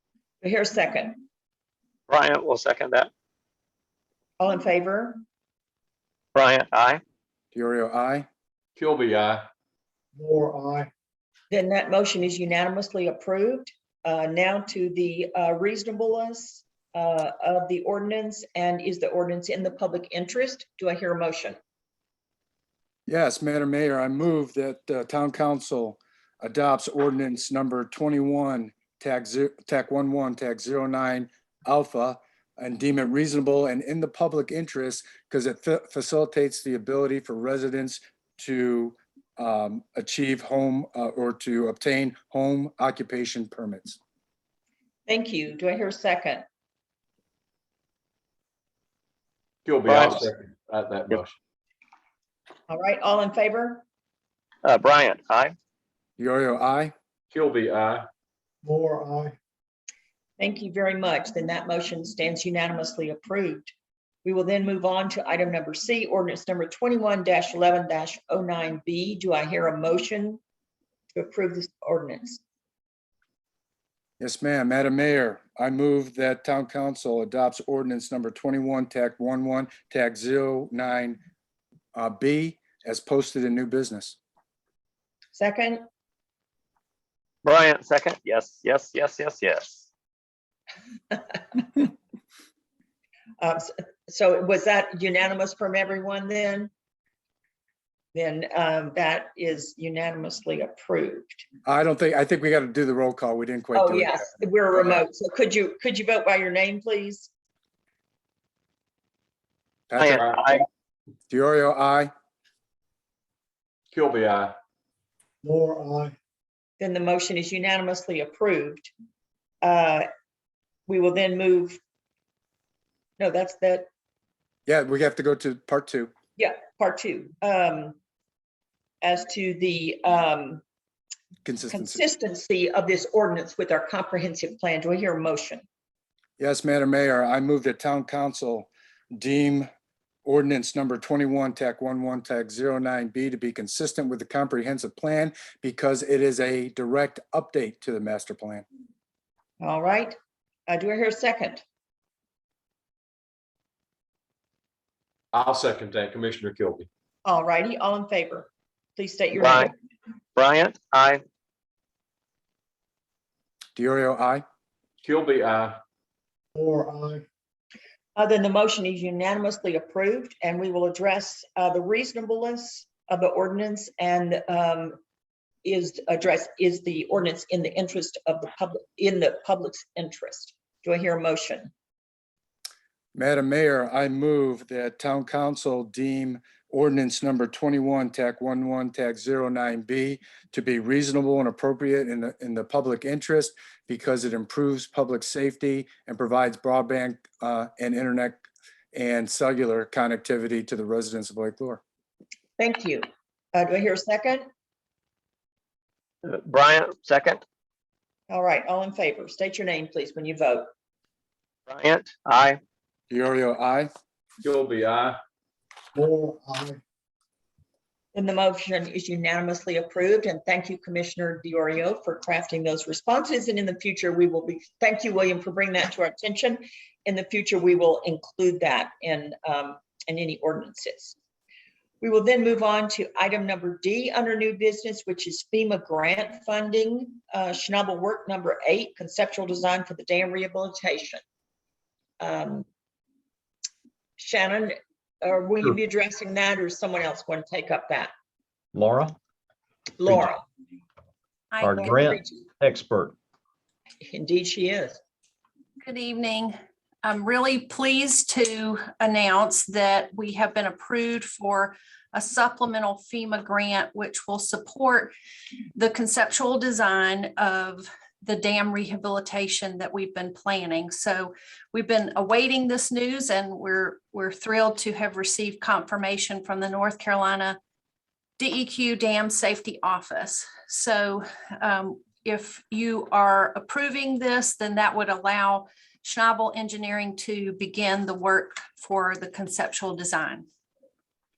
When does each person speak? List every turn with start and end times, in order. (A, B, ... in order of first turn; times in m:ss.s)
0:00.4-0:01.2 A
0:02.1-0:03.1 B
0:04.4-0:05.2 A
0:06.3-0:07.0 B
0:07.5-0:08.2 C
0:08.8-0:09.4 D
0:10.1-0:10.9 E
0:11.5-0:21.6 A
0:23.1-0:44.0 C
0:45.1-0:46.4 A
0:49.6-0:51.3 D
0:52.7-0:53.8 A
0:54.6-0:55.5 B
0:56.2-0:56.9 C
0:57.3-0:58.0 D
0:58.6-0:59.3 E
1:00.4-1:03.7 A
1:04.2-1:10.4 A
1:11.1-1:12.4 A
1:14.2-1:21.2 C
1:21.9-1:24.2 C
1:25.3-1:25.8 A
1:27.4-1:29.8 B
1:31.1-1:31.8 A
1:33.4-1:36.7 A
1:38.1-1:41.4 A
1:41.6-1:44.1 C
1:43.7-1:47.3 A
1:49.9-1:50.2 C
1:50.0-1:50.6 B
1:50.1-1:50.6 D
1:51.3-1:52.1 C
1:53.9-1:54.5 D
1:55.4-1:56.1 E
1:56.8-1:58.9 A
1:59.6-2:00.1 A
2:00.9-2:01.8 A
2:03.2-2:03.9 A
2:04.7-2:06.1 C
2:06.4-2:08.0 A
2:09.0-2:10.6 A
2:11.4-2:12.0 C
2:11.7-2:15.6 A
2:16.4-2:19.7 C
2:20.2-2:28.6 C
2:29.6-2:30.2 A
2:30.7-2:31.6 A
2:35.3-2:36.9 D
2:37.2-2:39.7 A
2:39.4-2:39.7 B
2:40.4-2:41.2 B
2:43.8-2:44.4 C
2:45.0-2:45.8 D
2:46.6-2:47.2 E
2:48.2-2:55.0 A
2:55.6-3:01.7 A
3:03.1-3:18.4 C
3:18.9-3:21.8 C
3:22.6-3:24.4 A
3:26.3-3:27.4 B
3:28.3-3:30.7 A
3:31.7-3:32.6 B
3:33.1-3:33.9 C
3:34.4-3:35.2 D
3:35.9-3:36.8 E
3:38.1-3:51.1 A
3:52.0-4:01.2 A
4:02.2-4:02.6 A
4:04.2-4:08.1 A
4:08.7-4:09.2 F
4:10.0-4:10.4 A
4:10.0-4:10.3 F
4:11.5-4:12.1 G
4:11.6-4:13.1 F
4:11.8-4:12.3 A
4:14.0-4:15.0 A
4:15.8-4:25.1 G
4:25.7-4:37.6 G
4:38.4-4:50.4 G